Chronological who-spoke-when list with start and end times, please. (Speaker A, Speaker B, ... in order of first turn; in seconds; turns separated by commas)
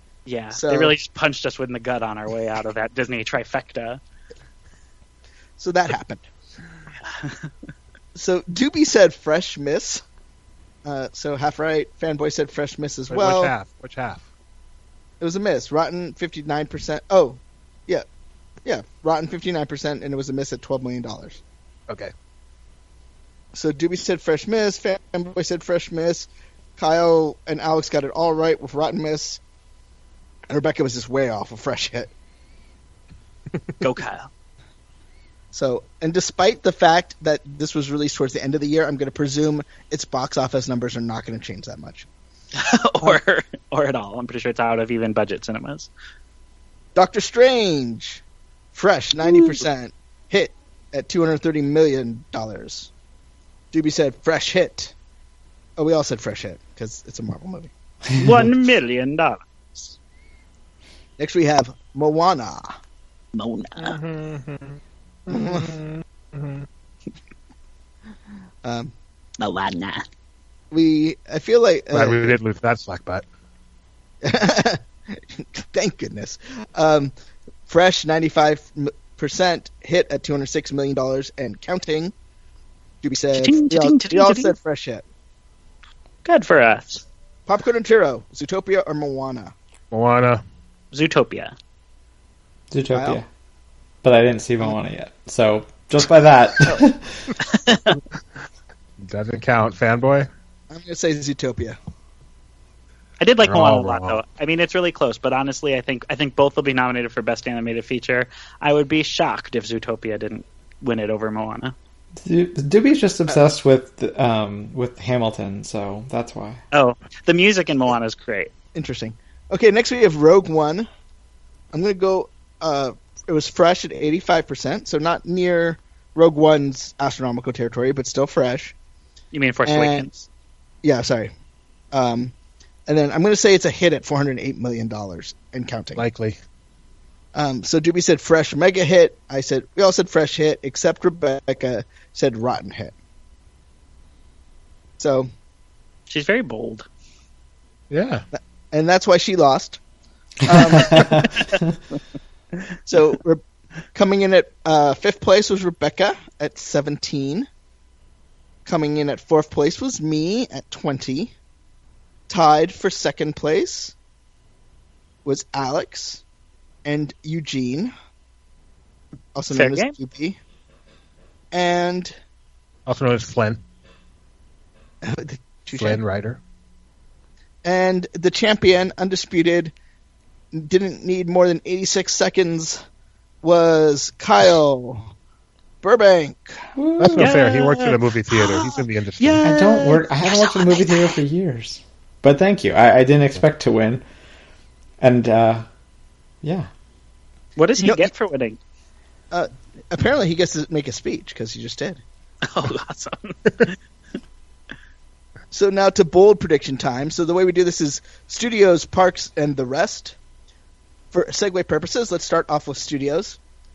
Speaker A: 0.3-4.0, Speaker B: 0.5-0.9, Speaker B: 5.6-6.3, Speaker A: 7.1-7.5, Speaker B: 8.2-10.0, Speaker B: 10.8-13.5, Speaker C: 13.1-14.2, Speaker B: 15.2-18.1, Speaker B: 18.6-21.4, Speaker B: 23.5-29.4, Speaker B: 30.5-32.1, Speaker A: 33.8-34.3, Speaker B: 35.5-42.1, Speaker A: 42.5-45.9, Speaker B: 47.0-48.2, Speaker B: 48.7-52.9, Speaker B: 53.7-54.9, Speaker B: 55.8-57.7, Speaker A: 58.2-60.0, Speaker B: 61.2-62.8, Speaker A: 63.4-64.0, Speaker C: 63.8-66.7, Speaker B: 65.3-65.7, Speaker B: 68.6-68.9, Speaker A: 69.4-70.0, Speaker B: 70.7-72.3, Speaker C: 71.9-73.2, Speaker B: 74.2-77.1, Speaker B: 77.7-82.1, Speaker B: 83.0-85.0, Speaker A: 83.3-84.5, Speaker A: 86.2-87.0, Speaker B: 87.5-89.5, Speaker C: 89.9-90.4, Speaker A: 90.9-91.5, Speaker D: 92.7-93.3, Speaker B: 92.9-93.2, Speaker D: 94.0-97.3, Speaker A: 97.4-98.0, Speaker C: 99.0-100.3, Speaker B: 100.7-101.8, Speaker A: 103.2-111.8, Speaker C: 103.4-104.2, Speaker D: 112.2-116.6, Speaker A: 116.7-118.5, Speaker B: 118.7-120.9, Speaker B: 121.7-128.8, Speaker A: 129.3-130.3, Speaker B: 129.7-130.1, Speaker B: 130.8-131.3, Speaker B: 131.9-132.3, Speaker B: 132.9-136.1, Speaker C: 136.0-136.4, Speaker B: 137.3-142.9, Speaker B: 145.0-145.3, Speaker A: 146.1-146.9, Speaker C: 147.9-148.2, Speaker B: 148.3-149.8, Speaker B: 150.4-151.3, Speaker D: 150.5-151.3, Speaker B: 152.9-153.4, Speaker B: 153.9-157.5, Speaker B: 158.7-161.3, Speaker B: 162.3-163.9, Speaker B: 165.2-166.2, Speaker B: 166.8-167.9, Speaker B: 169.3-170.4, Speaker A: 169.5-169.9, Speaker B: 171.5-172.1, Speaker C: 172.9-173.6, Speaker B: 175.0-176.0, Speaker C: 175.7-176.4, Speaker B: 177.6-179.7, Speaker B: 180.5-182.8, Speaker B: 183.4-185.1, Speaker B: 185.8-186.7, Speaker D: 186.8-187.3, Speaker C: 187.0-189.5, Speaker A: 187.2-191.2, Speaker D: 189.4-194.0, Speaker D: 195.0-195.7, Speaker D: 196.4-196.7, Speaker A: 197.6-198.6, Speaker B: 197.8-198.1, Speaker B: 199.3-202.0, Speaker A: 202.4-203.8, Speaker B: 205.5-210.2, Speaker B: 211.1-213.4